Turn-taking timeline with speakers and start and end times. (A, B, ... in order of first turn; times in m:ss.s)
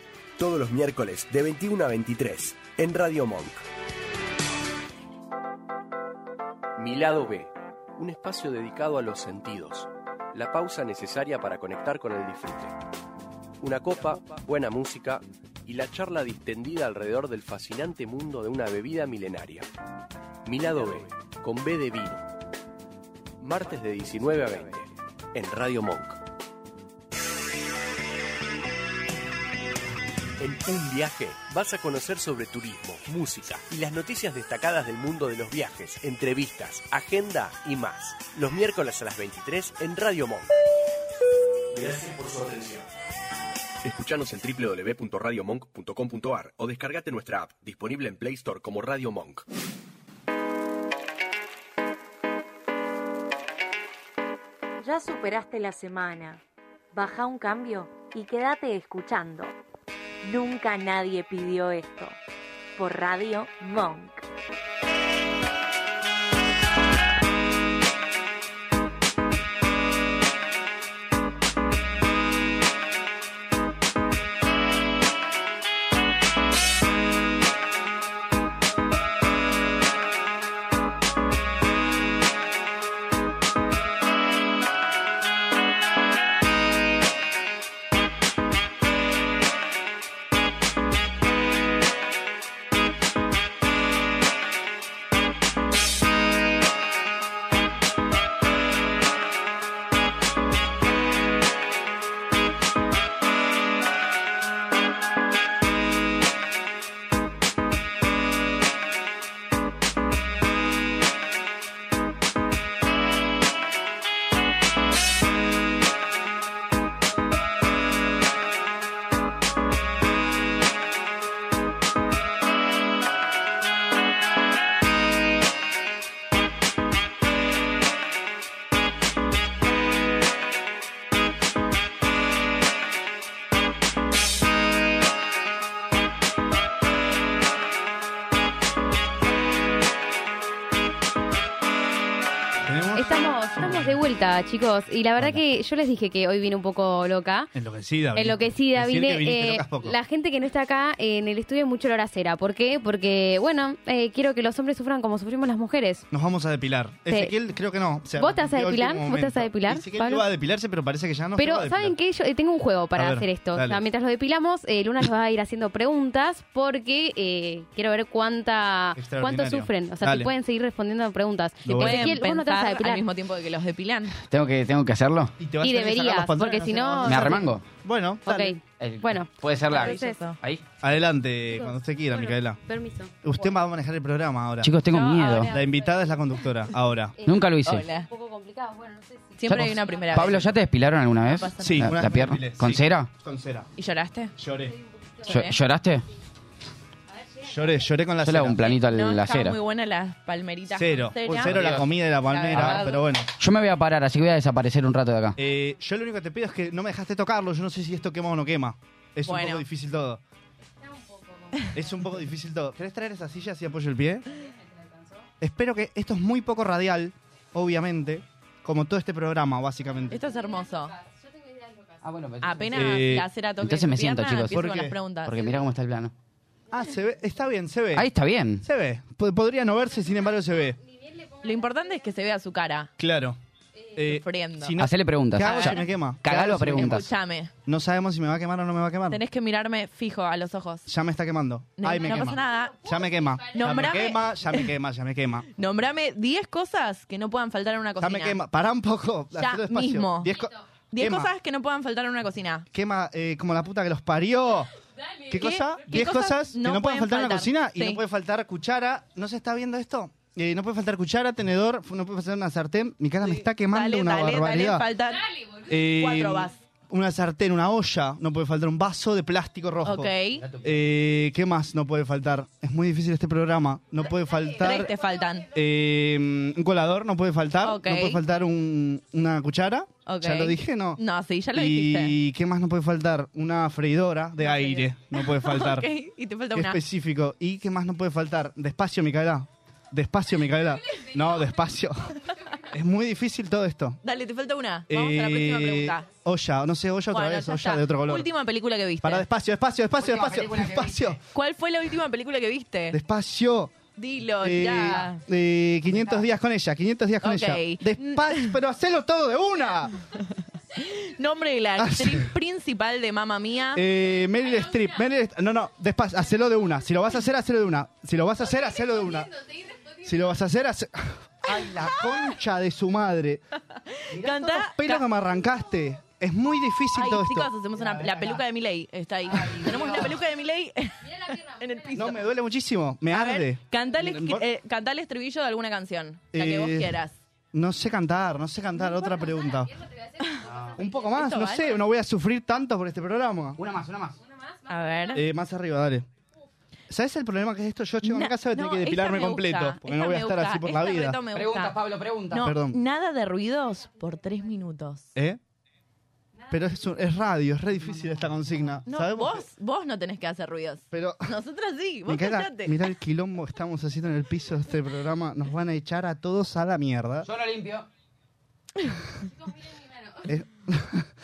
0:00.4-0:03.6 A
0:06.8-0:12.8 A
0:13.6-0:19.7 A
0:20.5-0:22.2 A
0:23.4-0:26.2 A
0:30.4-0:40.5 A
0:41.7-0:42.9 A
0:43.8-0:49.4 A
0:54.8-0:56.4 B
0:56.9-0:59.5 B
1:00.2-1:02.2 B
1:02.8-1:04.2 B
2:22.7-2:24.0 C
2:22.9-2:27.5 D
2:27.6-2:30.0 C
2:28.1-2:36.1 D
2:36.1-2:42.0 C
2:37.1-2:37.3 D
2:38.2-2:40.3 D
2:41.4-2:53.1 D
2:43.0-2:43.8 C
2:49.0-2:50.3 C
2:51.6-2:52.2 C
2:51.7-2:54.2 E
2:54.3-2:55.4 F
2:55.4-2:58.6 C
2:55.6-2:57.5 D
2:57.0-2:57.6 F
2:58.3-3:00.3 D
2:58.7-3:00.6 F
2:59.7-3:00.4 E
3:00.8-3:02.6 C
3:01.5-3:03.6 D
3:03.2-3:04.8 C
3:04.6-3:05.5 F
3:04.9-3:05.5 E
3:05.2-3:06.2 D
3:05.4-3:07.2 C
3:07.2-3:07.9 F
3:07.6-3:08.1 E
3:08.0-3:10.4 D
3:09.4-3:10.5 E
3:09.5-3:13.1 F
3:09.6-3:10.5 C
3:11.3-3:11.9 E
3:11.6-3:13.7 C
3:13.8-3:14.3 E
3:14.4-3:14.8 C
3:15.2-3:15.6 E
3:15.2-3:16.0 F
3:17.4-3:18.7 C
3:18.2-3:19.6 F
3:18.6-3:23.0 E
3:20.7-3:23.3 C
3:21.3-3:21.9 F
3:22.5-3:22.8 F
3:23.4-3:25.4 F
3:25.4-3:30.2 C
3:29.2-3:29.6 E
3:31.0-3:31.7 D
3:31.7-3:34.3 C
3:35.4-3:40.3 C
3:40.1-3:41.0 E
3:42.0-3:42.8 F
3:42.4-3:45.6 E
3:42.7-3:43.3 C
3:43.6-3:44.7 F
3:44.5-3:45.0 C
3:45.2-3:46.1 F
3:46.7-3:50.8 C
3:48.0-3:48.6 F
3:51.4-3:52.9 E
3:53.0-3:53.4 C
3:53.9-3:57.1 C
3:54.0-3:54.8 E
3:54.8-3:57.1 F
3:55.4-3:55.8 E
3:56.7-3:57.5 E
3:57.7-3:59.2 C
3:59.1-4:00.9 E
4:00.9-4:05.5 C
4:01.8-4:04.7 E
4:05.6-4:08.4 E
4:08.0-4:11.3 C
4:09.4-4:12.7 E
4:12.7-4:14.7 C
4:15.3-4:24.9 C
4:15.3-4:18.0 E
4:23.2-4:26.6 E
4:25.6-4:45.9 C
4:29.8-4:30.5 E
4:30.4-4:30.7 F
4:34.6-4:35.5 E
4:37.6-4:38.2 E
4:40.1-4:42.2 E
4:44.4-4:46.8 E
4:46.5-4:54.0 C
4:54.0-4:56.1 E
4:54.9-4:58.3 C
4:57.1-4:59.3 E
4:59.0-5:01.2 C
5:00.0-5:01.1 F
5:01.3-5:03.0 E
5:02.9-5:03.8 C
5:04.0-5:05.2 E
5:04.4-5:10.0 C
5:05.9-5:06.2 F
5:07.2-5:08.6 E
5:10.8-5:13.8 E
5:11.8-5:12.3 C
5:13.7-5:19.5 C
5:20.0-5:23.4 C
5:21.6-5:22.1 E
5:24.0-5:25.1 E
5:24.1-5:28.4 C
5:26.9-5:32.2 E
5:27.8-5:28.3 F
5:29.3-5:30.2 F
5:29.6-5:30.0 C
5:31.9-5:34.5 C
5:33.1-5:37.2 E
5:36.3-5:37.0 C
5:37.5-5:39.8 C
5:40.4-5:40.8 F
5:40.7-5:43.6 C
5:41.0-5:41.8 E
5:43.6-5:44.2 F
5:44.7-5:45.2 E
5:45.1-5:46.1 C
5:46.9-5:51.2 C
5:48.0-5:55.1 E
5:51.3-5:52.5 F
5:52.4-5:52.8 C
5:56.5-5:59.5 C
5:58.9-6:02.8 E
6:00.9-6:01.3 C
6:02.1-6:07.3 C
6:07.2-6:07.9 F
6:10.2-6:11.1 C